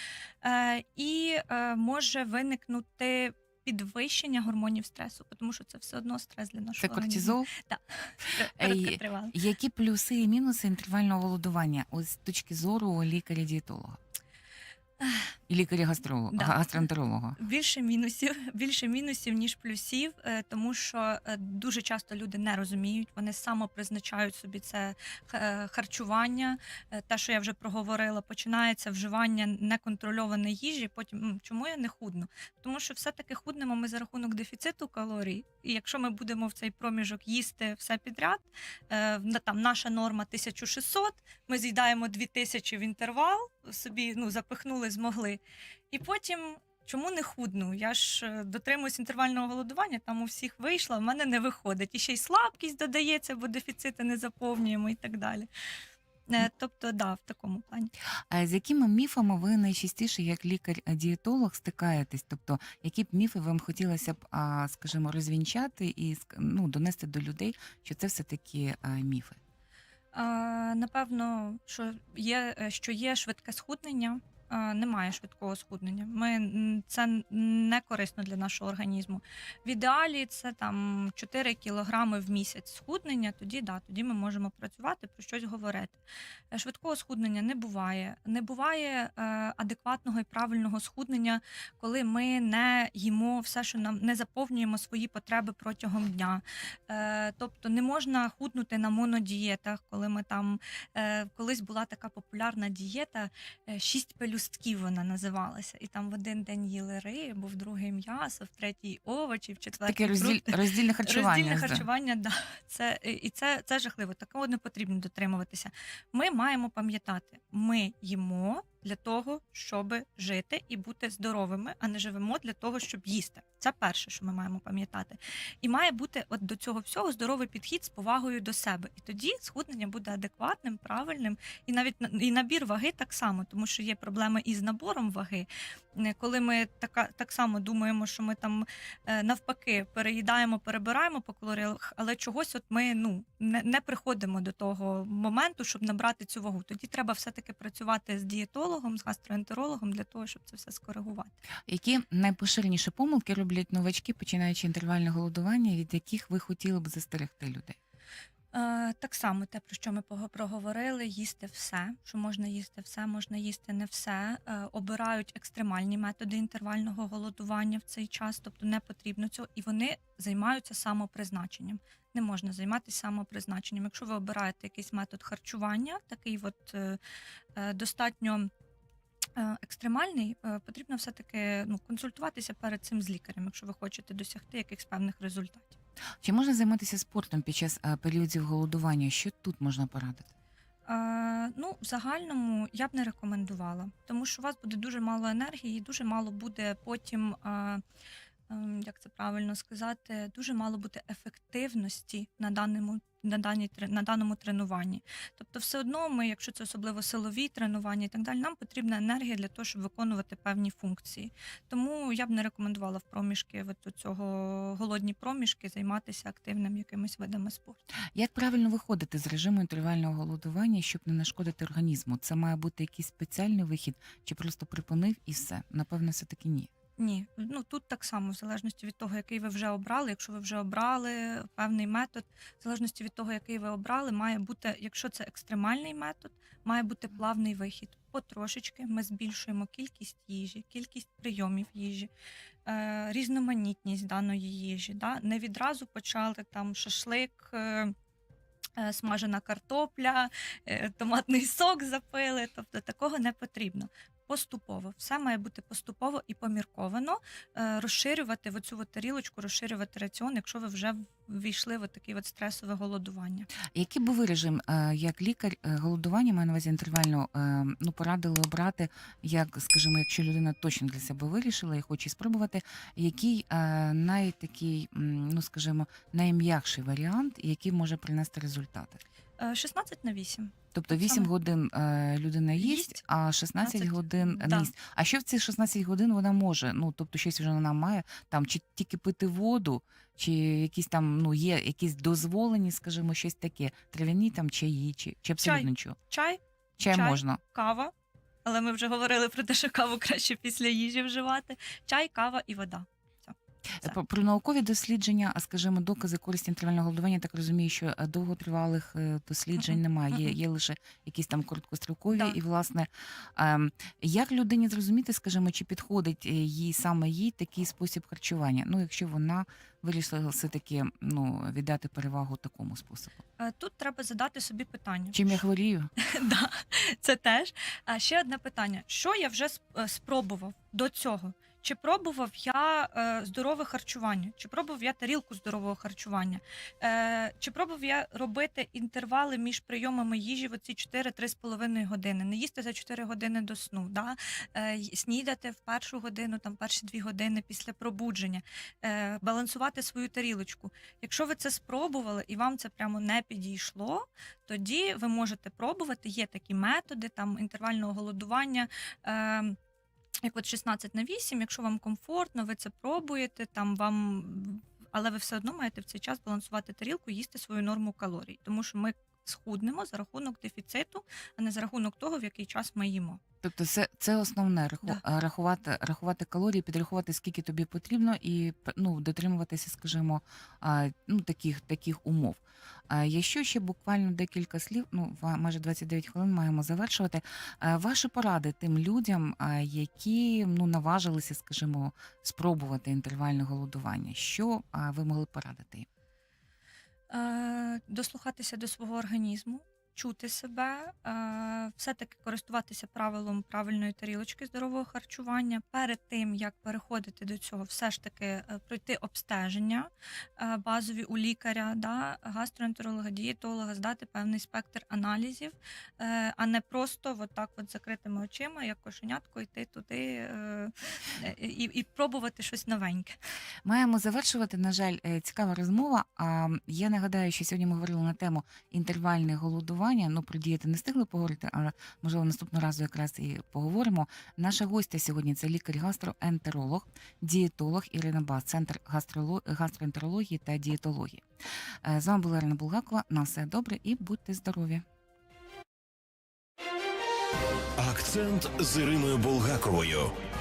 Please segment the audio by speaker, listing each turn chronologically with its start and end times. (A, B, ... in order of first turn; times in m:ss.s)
0:00.4-0:09.4 A
0:06.8-0:07.5 B
0:08.6-0:14.0 B
0:15.5-0:17.4 B
0:16.3-0:16.9 A
0:17.4-0:55.5 A
0:56.3-0:57.9 A
0:58.3-1:09.4 B
1:10.1-2:31.3 A
1:49.8-1:51.9 B
2:31.7-2:37.8 B
2:38.5-2:57.0 A
2:57.6-2:58.5 A
2:59.4-3:05.8 A
3:06.2-3:10.3 B
3:10.9-3:17.8 A
3:18.5-3:37.8 A
3:38.2-3:46.7 B
3:47.0-4:02.1 A
4:02.7-4:07.9 A
4:08.8-4:23.5 A
4:23.7-4:39.0 B
4:39.4-4:41.3 A
4:40.7-4:56.0 B
4:42.6-4:43.0 A
4:43.6-4:44.7 A
4:55.4-4:57.9 A
4:56.8-4:57.4 B
4:58.4-5:04.0 A
5:03.8-5:23.2 B
5:12.1-5:12.4 A
5:23.4-5:25.4 A
5:25.1-5:25.9 B
5:26.0-5:59.6 A
6:00.2-6:13.2 A
6:13.4-6:35.9 B
6:37.1-7:03.2 A
7:03.6-7:21.2 B
7:21.8-7:24.8 B
7:27.8-7:30.1 C